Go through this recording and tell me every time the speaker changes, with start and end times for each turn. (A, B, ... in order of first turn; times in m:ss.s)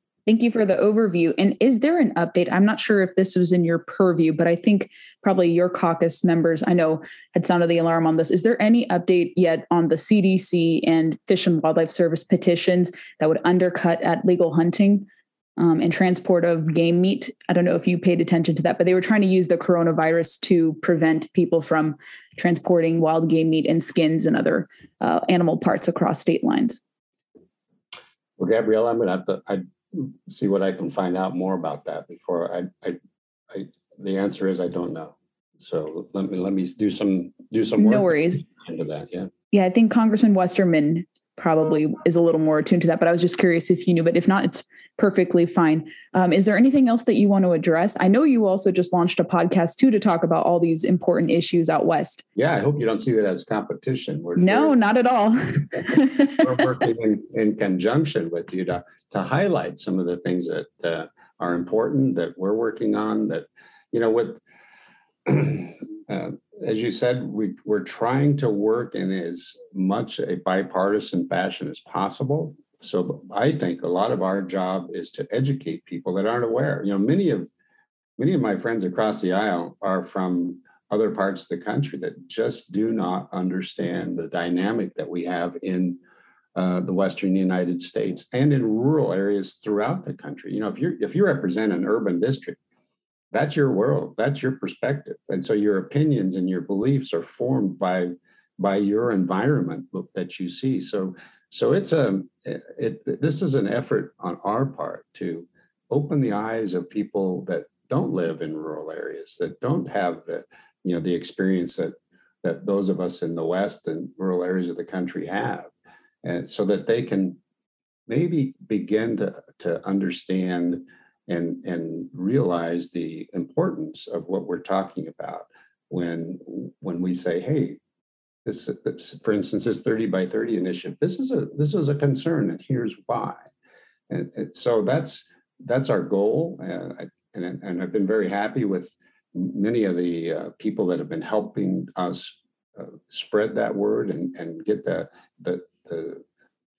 0:00.2-0:15.1 A
0:15.6-0:26.8 A
0:28.4-0:33.0 B
0:33.5-0:39.3 B
0:37.8-0:38.4 A
0:39.5-0:52.2 A
0:52.3-0:54.8 B
0:54.4-0:56.7 A
0:56.4-1:04.4 B
1:05.2-1:17.5 B
1:18.2-1:26.0 B
1:26.5-1:32.6 B
1:33.3-1:55.7 B
1:56.2-1:57.4 B
1:58.1-2:07.8 B
2:08.4-2:13.5 B
2:14.1-2:26.2 B